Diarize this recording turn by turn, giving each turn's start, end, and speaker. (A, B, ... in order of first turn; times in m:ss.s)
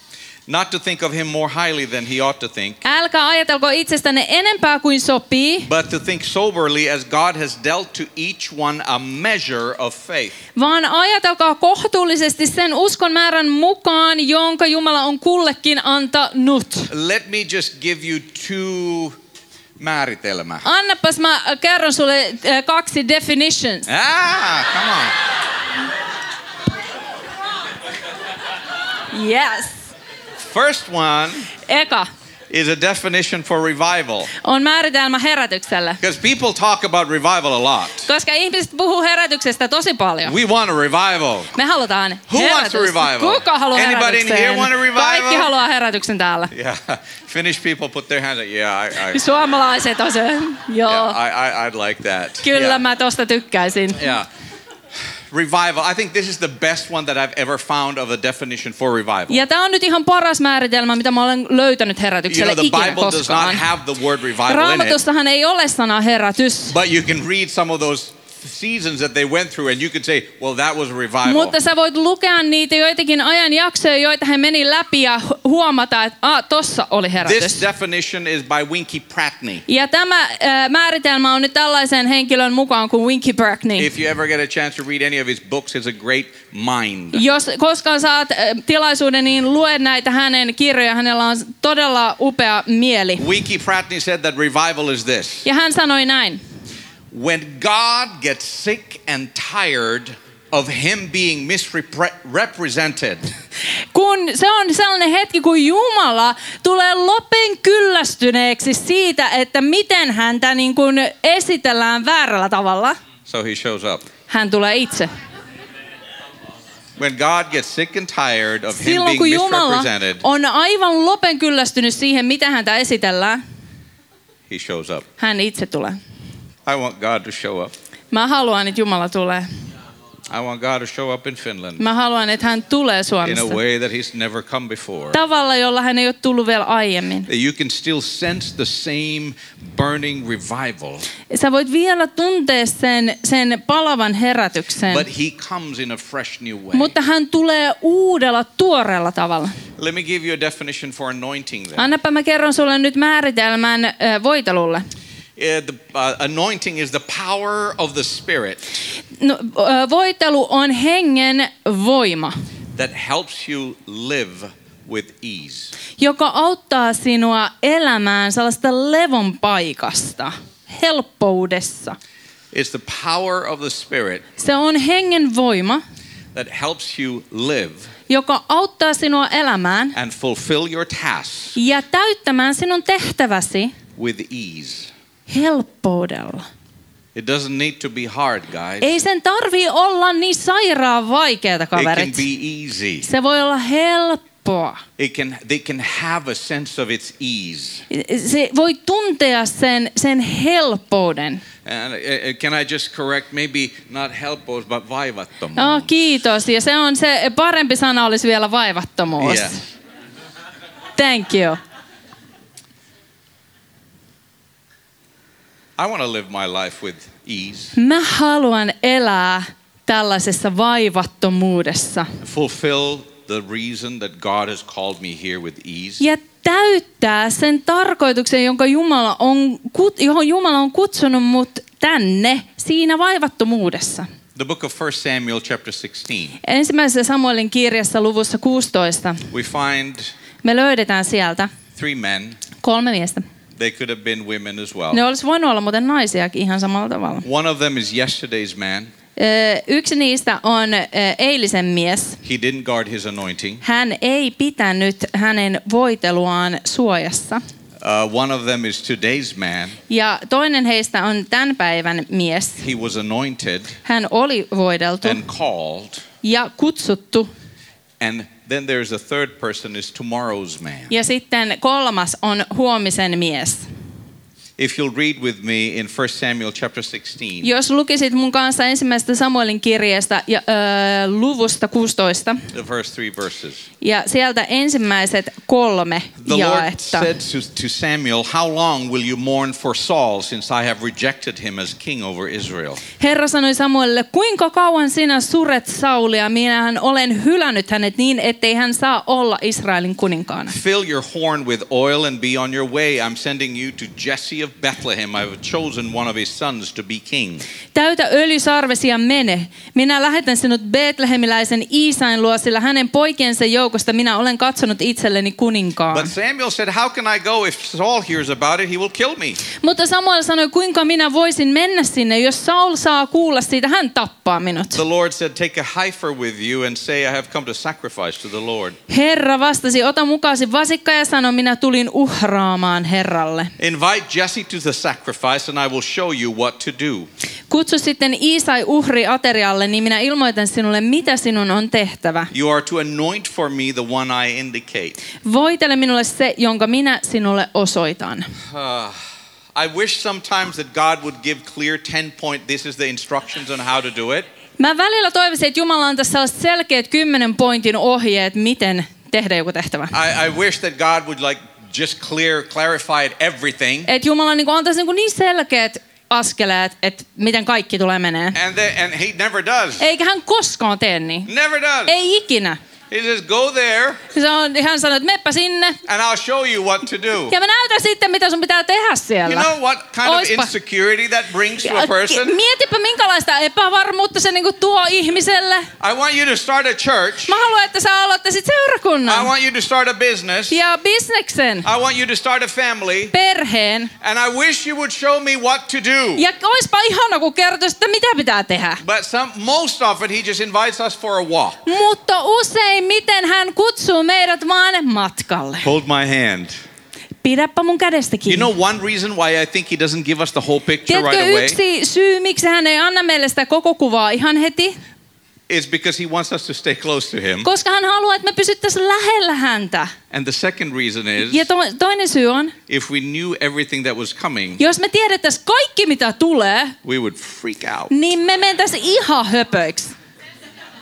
0:00.5-0:02.8 A
0:02.8-0:05.7 B
0:05.6-0:10.4 A
0:10.5-0:16.9 B
0:16.9-0:19.2 A
0:19.8-0:20.6 A
0:20.6-0:23.9 B
0:23.9-0:25.2 A
0:29.1-0:29.8 B
0:30.4-0:31.5 A
0:31.6-0:32.1 B
0:32.5-0:34.3 A
0:34.4-0:36.0 B
0:36.0-0:38.1 A
0:38.0-0:40.4 B
0:40.2-0:41.5 A
0:41.5-0:46.5 B
0:42.3-0:45.5 A
0:46.5-0:49.2 A
0:49.1-0:51.2 B
0:50.8-0:52.8 A
0:52.4-0:54.1 B
0:54.0-0:54.3 A
0:55.3-0:59.4 A
0:59.3-1:03.6 B
1:02.3-1:05.0 A
1:04.4-1:06.8 B
1:06.7-1:11.6 A
1:11.2-1:17.6 B
1:17.2-1:19.6 A
1:19.7-1:23.9 B
1:23.8-1:27.2 A
1:27.1-1:33.3 B
1:33.2-1:35.4 A
1:35.4-1:36.4 B
1:37.1-1:43.3 A
1:43.9-1:53.0 B
1:53.3-1:54.0 A
1:54.3-1:55.1 B
1:57.0-2:00.2 A
1:58.7-2:03.4 B
2:04.5-2:05.0 A
2:05.2-2:06.0 B
2:06.6-2:07.7 A
2:08.1-2:09.5 B
2:10.3-2:11.8 A
2:11.8-2:13.6 B
2:13.2-2:15.2 A
2:15.1-2:17.3 B
2:17.3-2:21.1 A
2:21.3-2:25.1 B
2:24.9-2:26.9 A
2:26.7-2:29.6 B
2:29.8-2:31.9 A
2:31.8-2:34.8 B
2:35.4-2:38.6 A
2:39.1-2:42.3 B
2:42.7-2:45.7 A
2:46.0-2:52.0 B
2:52.5-2:54.2 A
2:54.4-2:55.8 B
2:56.3-2:57.9 A
2:58.1-3:00.0 B
2:59.9-3:01.6 A
3:01.5-3:03.8 B
3:04.0-3:04.9 A
3:05.3-3:06.4 B
3:07.1-3:09.0 A
3:08.8-3:12.2 B
3:11.7-3:13.1 A
3:13.0-3:14.8 B
3:15.0-3:17.8 A
3:17.9-3:21.4 B
3:21.6-3:25.9 A
3:25.5-3:29.6 B
3:29.2-3:29.6 A
3:31.0-3:31.6 B
3:35.8-3:37.7 A
3:37.7-3:42.1 B
3:42.2-3:46.0 A
3:46.0-3:54.1 B
3:54.3-3:56.4 A
3:56.4-3:59.3 B
3:59.3-4:00.1 A
4:00.4-4:01.5 B
4:01.8-4:02.4 A
4:02.6-4:03.2 B
4:03.6-4:05.0 A
4:04.9-4:07.2 B
4:07.2-4:08.9 A
4:09.2-4:12.2 B
4:12.2-4:13.6 A
4:13.6-4:17.4 B
4:17.8-4:19.8 A
4:19.9-4:22.6 B
4:22.6-4:23.8 A
4:23.8-4:25.2 B
4:25.0-4:26.0 A
4:26.2-4:27.3 B
4:28.0-4:30.9 A
4:30.9-4:33.6 B
4:34.6-4:37.5 A
4:37.4-4:42.4 B
4:42.5-4:43.7 A
4:43.8-4:47.1 B
4:46.2-4:52.8 A
4:53.0-5:00.6 B
5:00.5-5:07.4 A
5:07.7-5:16.1 B
5:15.9-5:19.4 A
5:19.6-5:24.8 B
5:24.7-5:28.8 A
5:28.9-5:33.5 B
5:33.6-5:37.1 A
5:37.5-5:42.3 B
5:42.3-5:45.0 A
5:45.2-5:48.3 B
5:48.5-5:49.0 A
5:49.5-5:54.3 A
5:54.6-5:59.9 B
5:59.9-6:03.9 A
6:03.8-6:08.4 B
6:08.3-6:09.9 A
6:09.8-6:11.3 B
6:11.2-6:12.0 A
6:11.8-6:12.6 B
6:12.9-6:14.0 A
6:14.1-6:15.8 B
6:15.9-6:17.3 A
6:17.3-6:19.5 B
6:19.2-6:22.4 A
6:20.0-6:20.5 B
6:21.6-6:25.7 B
6:25.8-6:27.4 A
6:27.2-6:29.3 B
6:29.0-6:30.6 A
6:30.5-6:31.7 B
6:31.6-6:33.1 A
6:33.1-6:33.9 B
6:34.0-6:36.2 A
6:36.2-6:38.8 B
6:38.8-6:41.6 A
6:41.6-6:45.7 B
6:45.6-6:46.6 A
6:47.2-6:48.5 B
6:48.3-6:51.6 A
6:50.9-6:54.8 B
6:55.5-6:57.5 A
6:57.4-6:59.9 B
7:00.1-7:01.5 A
7:01.2-7:02.6 B
7:02.7-7:04.6 A
7:04.6-7:06.8 B
7:06.8-7:07.9 A
7:07.9-7:09.9 B